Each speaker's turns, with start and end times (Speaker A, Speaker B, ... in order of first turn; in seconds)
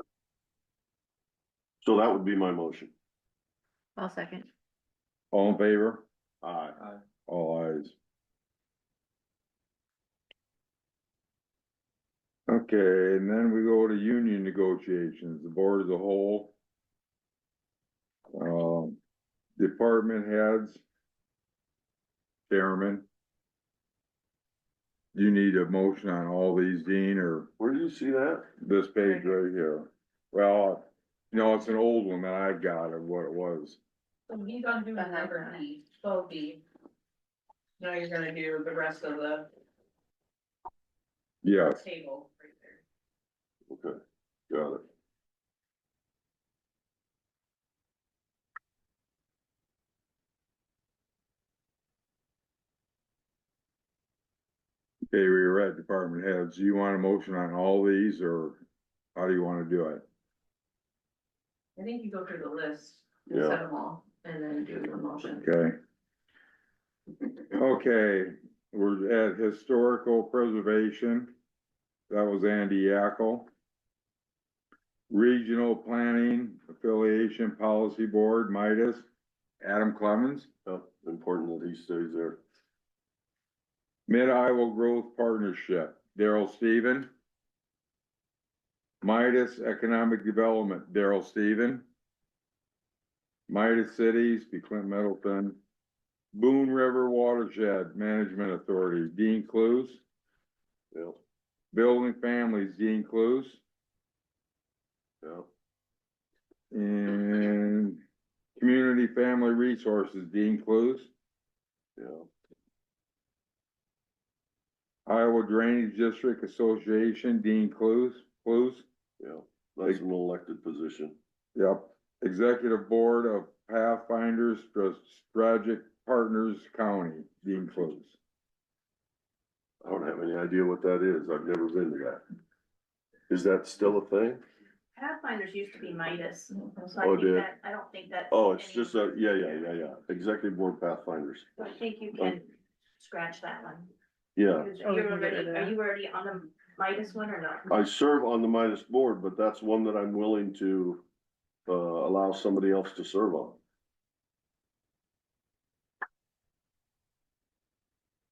Speaker A: 1.8-2.9, 6.4-6.8, 27.6-28.4, 43.7-44.0, 44.5-44.8, 63.3-63.6, 80.7-82.4, 100.9-101.2, 105.2-105.5, 112.0-112.2, 119.2-121.2, 129.8-132.2, 133.3-134.4, 137.0-137.5, 138.3-141.6, 144.3-144.7, 147.7-151.0, 151.7-153.6
Speaker B: 4.0-4.5, 35.0-35.6, 144.8-145.8
Speaker C: 5.3-6.0, 7.2-8.0, 12.5-16.6, 18.3-19.0, 19.6-20.8, 22.5-23.1, 25.1-27.5, 28.6-33.8, 41.4-41.8, 55.1-58.6, 59.1-60.0, 65.4-65.8, 67.5-71.3, 72.1-73.5, 75.1-79.1, 79.6-80.5, 84.1-87.1, 89.0-91.8, 93.5-95.6, 96.3-100.0, 101.7-103.6, 106.7-108.0, 108.6-111.1, 115.0-118.9, 121.5-128.2
Speaker D: 34.3-36.6, 37.8-39.5, 41.7-42.8, 61.8-65.5
Speaker E: 134.9-139.6, 141.6-143.9, 144.6-147.7